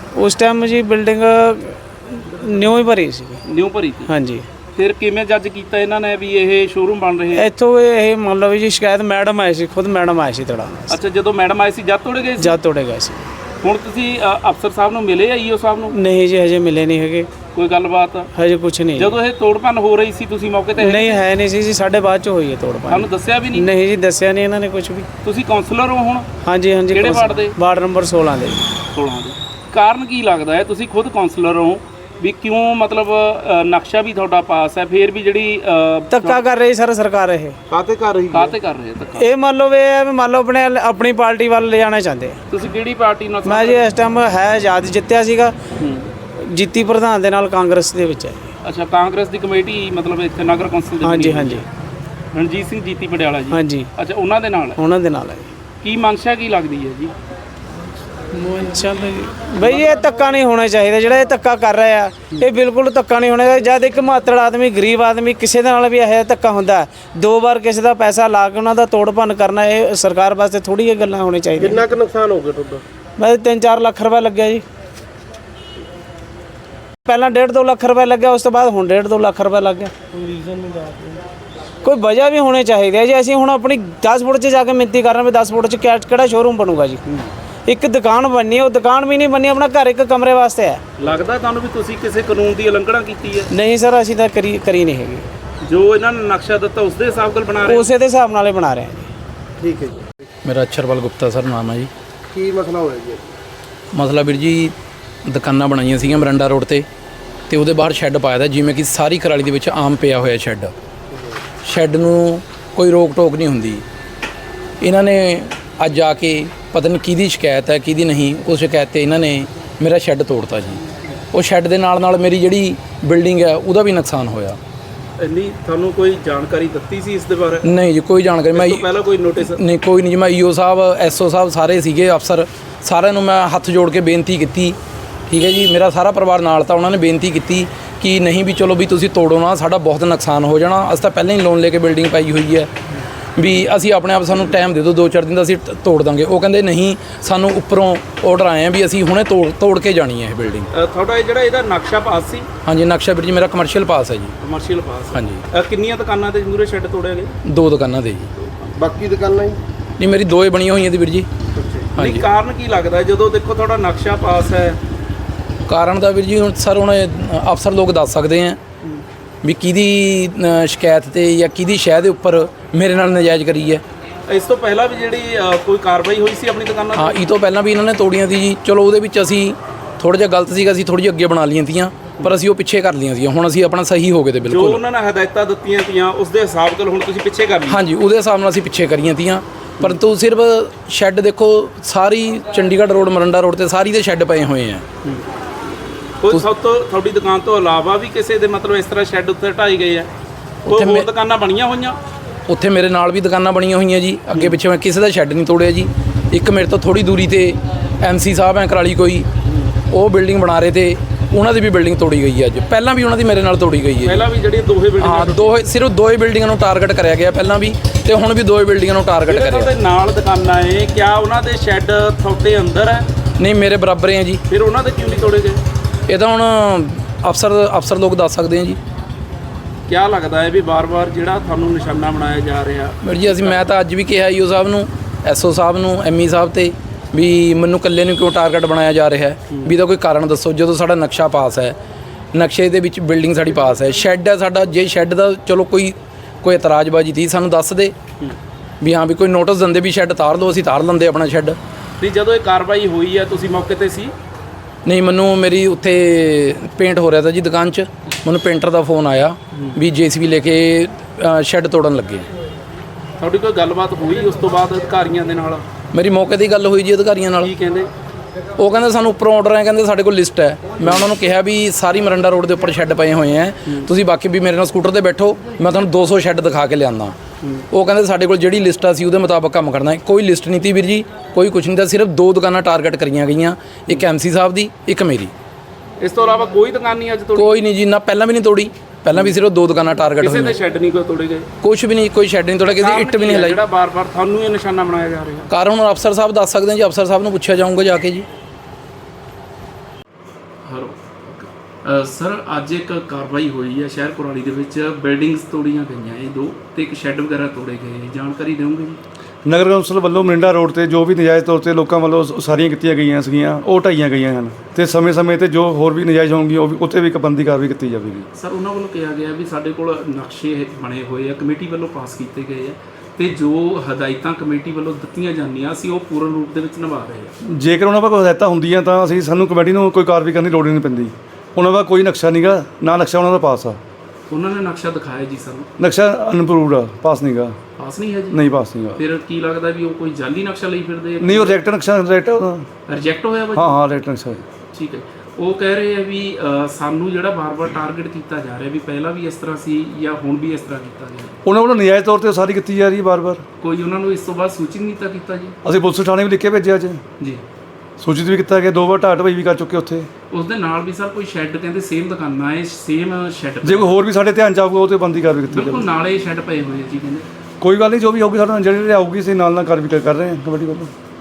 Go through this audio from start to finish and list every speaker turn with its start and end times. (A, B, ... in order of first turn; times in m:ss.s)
0:00.2-0:03.4 A
0:03.4-0:04.1 B
0:04.1-0:04.5 A
0:04.8-0:07.5 B
0:07.3-0:11.0 A
0:10.9-0:12.6 B
0:12.4-0:13.2 A
0:13.6-0:15.9 B
0:15.9-0:17.3 A
0:17.5-0:18.3 B
0:18.4-0:19.2 A
0:19.0-0:21.2 B
0:20.8-0:25.1 A
0:22.9-0:23.7 B
0:25.2-0:26.3 B
0:26.4-0:28.7 A
0:26.9-0:27.6 B
0:28.9-0:36.4 B
0:36.1-0:37.6 A
0:37.7-0:38.6 C
0:38.3-0:39.2 B
0:39.2-0:42.4 A
0:42.5-0:43.8 B
0:43.4-0:45.6 A
0:45.8-0:46.1 B
0:46.4-0:48.5 A
0:48.6-0:51.6 B
0:51.0-0:51.7 A
0:52.3-0:54.8 B
0:53.5-0:53.9 A
0:54.8-0:55.5 A
0:55.8-0:57.1 B
0:58.3-1:11.9 A
0:59.6-0:59.9 B
1:11.6-1:12.8 C
1:13.2-1:14.6 A
1:17.0-1:19.9 A
1:20.1-1:21.2 C
1:21.8-1:27.0 A
1:27.7-1:30.8 A
1:31.0-1:33.5 B
1:33.5-1:35.3 A
1:35.6-1:37.9 B
1:37.6-1:39.1 A
1:39.6-1:40.1 C
1:40.4-1:41.9 D
1:42.3-1:43.3 C
1:43.9-1:44.7 D
1:45.2-1:46.9 D
1:47.5-1:50.7 D
1:51.6-1:53.8 D
1:54.8-2:04.6 D
2:05.2-2:07.8 B
2:07.6-2:08.8 D
2:08.5-2:09.6 B
2:09.4-2:14.8 D
2:15.3-2:22.7 D
2:23.4-2:30.7 D
2:30.7-2:32.5 B
2:32.6-2:34.3 D
2:34.4-2:37.4 B
2:35.1-2:35.4 D
2:37.5-2:38.3 D
2:38.3-2:38.9 B
2:38.8-2:39.6 C
2:40.0-2:41.3 D
2:41.5-2:44.8 B
2:42.0-2:42.3 D
2:45.7-2:48.6 D
2:49.4-2:53.8 D
2:54.3-2:57.2 B
2:57.0-3:04.8 D
3:04.4-3:07.8 B
3:07.7-3:14.8 D
3:16.2-3:20.1 B
3:20.7-3:21.1 D
3:20.7-3:22.0 B
3:22.5-3:29.3 D
3:24.3-3:24.6 B
3:29.9-3:34.3 D
3:34.0-3:35.6 B
3:35.0-3:39.7 D
3:39.3-3:43.1 B
3:43.4-3:44.4 D
3:44.5-3:45.6 B
3:46.1-3:48.8 D
3:49.9-3:53.0 B
3:53.0-4:01.8 D
4:02.3-4:08.0 D
4:08.8-4:11.6 D
4:12.0-4:14.1 B
4:14.8-4:22.3 D
4:19.5-4:19.8 B
4:23.2-4:25.6 B
4:25.9-4:27.5 D
4:27.4-4:27.9 B
4:28.6-4:37.2 D
4:30.8-4:31.1 B
4:37.7-4:45.3 D
4:46.0-4:47.6 B
4:47.4-4:50.6 D
4:49.1-4:49.4 B
4:50.2-4:51.5 B
4:51.6-4:53.6 D
4:52.8-4:55.5 B
4:55.5-4:58.3 D
5:00.6-5:09.0 B
5:09.4-5:18.3 E
5:18.4-5:27.3 B
5:27.4-5:33.8 E
5:34.3-5:35.7 B
5:35.8-5:37.6 E
5:37.8-5:38.4 B
5:38.3-5:39.0 E
5:39.0-5:41.6 B
5:41.2-5:42.7 E
5:42.9-5:43.8 B
5:43.6-5:44.4 E
5:44.7-5:51.4 B
5:51.4-5:53.4 E
5:53.6-5:55.6 B
5:55.6-5:57.0 E
5:58.0-6:00.1 E
6:00.3-6:03.9 B
6:03.6-6:05.9 E
6:05.5-6:07.3 B
6:07.6-6:10.9 E